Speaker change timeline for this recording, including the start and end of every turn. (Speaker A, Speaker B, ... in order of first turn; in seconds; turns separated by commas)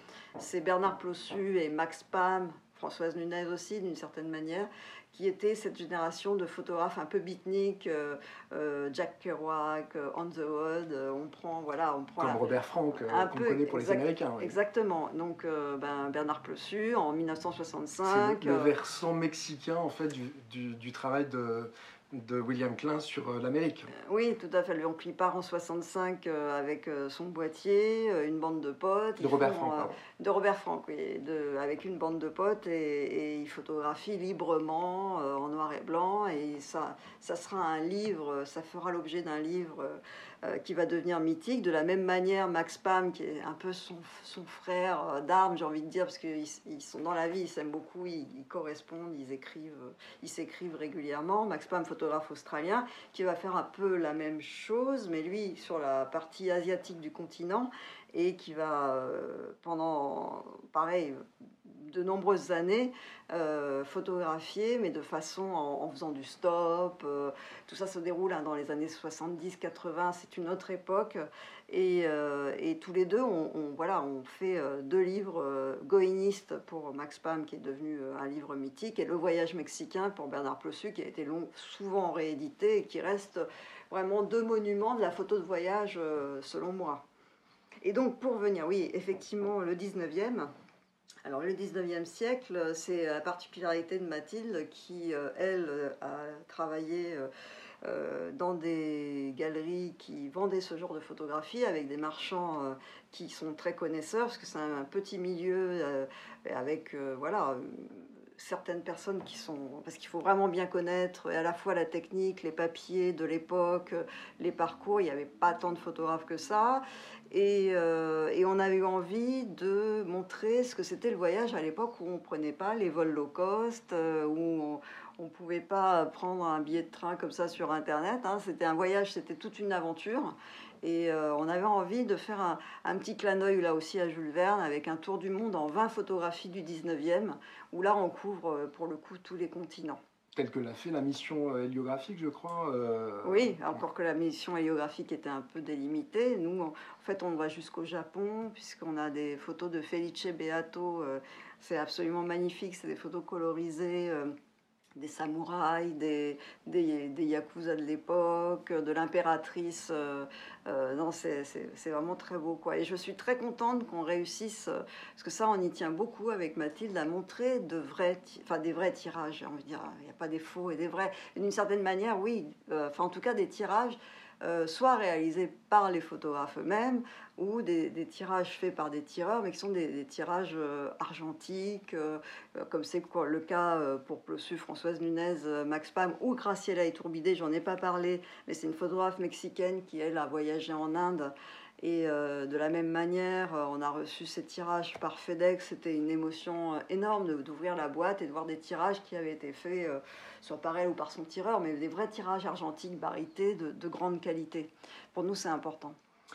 Speaker A: 0.4-12.5, Speaker B: 12.2-14.5, Speaker A: 13.0-18.7, Speaker B: 18.1-23.9, Speaker A: 24.1-87.0, Speaker B: 29.2-30.0, Speaker A: 87.8-90.5, Speaker A: 91.2-97.3, Speaker A: 97.8-140.0, Speaker B: 140.3-143.8, Speaker A: 143.2-154.3, Speaker A: 155.0-206.0